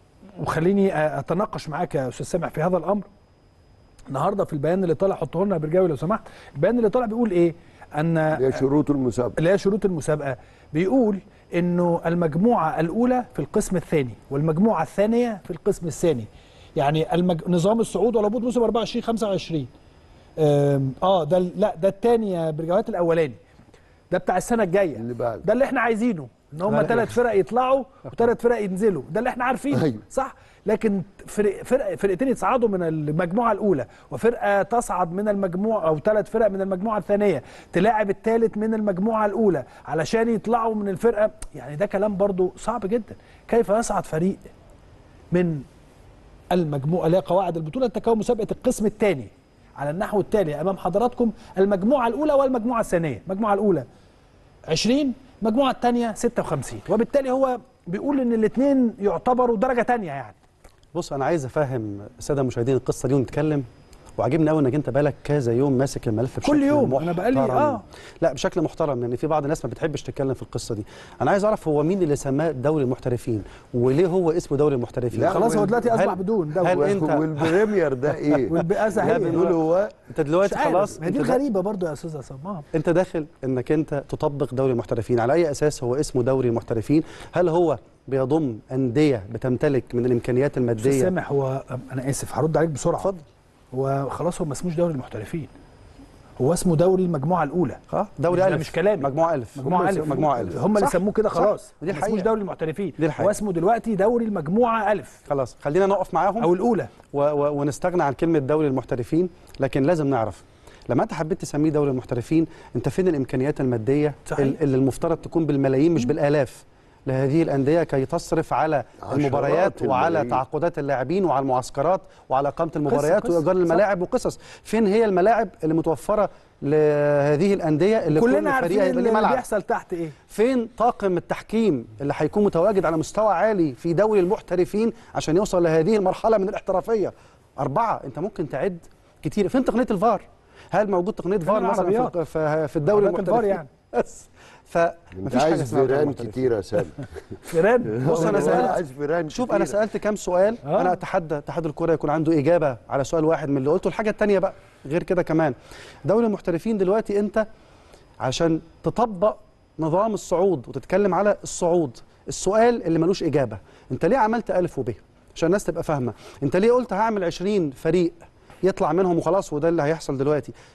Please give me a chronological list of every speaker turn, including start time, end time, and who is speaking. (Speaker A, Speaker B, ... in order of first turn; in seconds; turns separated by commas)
Speaker A: 0.4-3.1, Speaker A: 4.1-8.6, Speaker B: 8.3-9.4, Speaker A: 9.4-19.7, Speaker A: 20.4-23.4, Speaker A: 24.1-44.4, Speaker B: 25.0-25.4, Speaker B: 26.7-26.9, Speaker B: 29.8-30.0, Speaker A: 45.3-45.6, Speaker A: 46.5-53.9, Speaker A: 54.7-60.4, Speaker C: 60.9-63.7, Speaker C: 64.2-77.7, Speaker A: 66.4-67.8, Speaker B: 75.1-75.9, Speaker A: 75.2-76.9, Speaker B: 76.7-79.9, Speaker A: 78.5-79.5, Speaker C: 78.9-79.6, Speaker C: 80.1-81.4, Speaker A: 80.4-82.7, Speaker C: 82.7-91.1, Speaker A: 90.8-93.1, Speaker C: 93.0-93.2, Speaker A: 93.7-95.5, Speaker A: 96.4-105.2, Speaker C: 97.9-102.3, Speaker C: 103.0-103.3, Speaker C: 105.2-106.5, Speaker A: 106.4-106.9, Speaker C: 107.1-129.4, Speaker A: 114.3-114.6, Speaker B: 119.0-120.4, Speaker A: 122.9-123.8, Speaker A: 128.1-130.2, Speaker C: 130.3-146.5, Speaker A: 141.5-142.2, Speaker A: 142.9-143.7, Speaker B: 145.1-147.0, Speaker A: 147.4-148.8, Speaker B: 147.9-149.8, Speaker C: 148.0-148.8, Speaker C: 149.3-157.4, Speaker A: 150.7-151.0, Speaker C: 158.2-170.5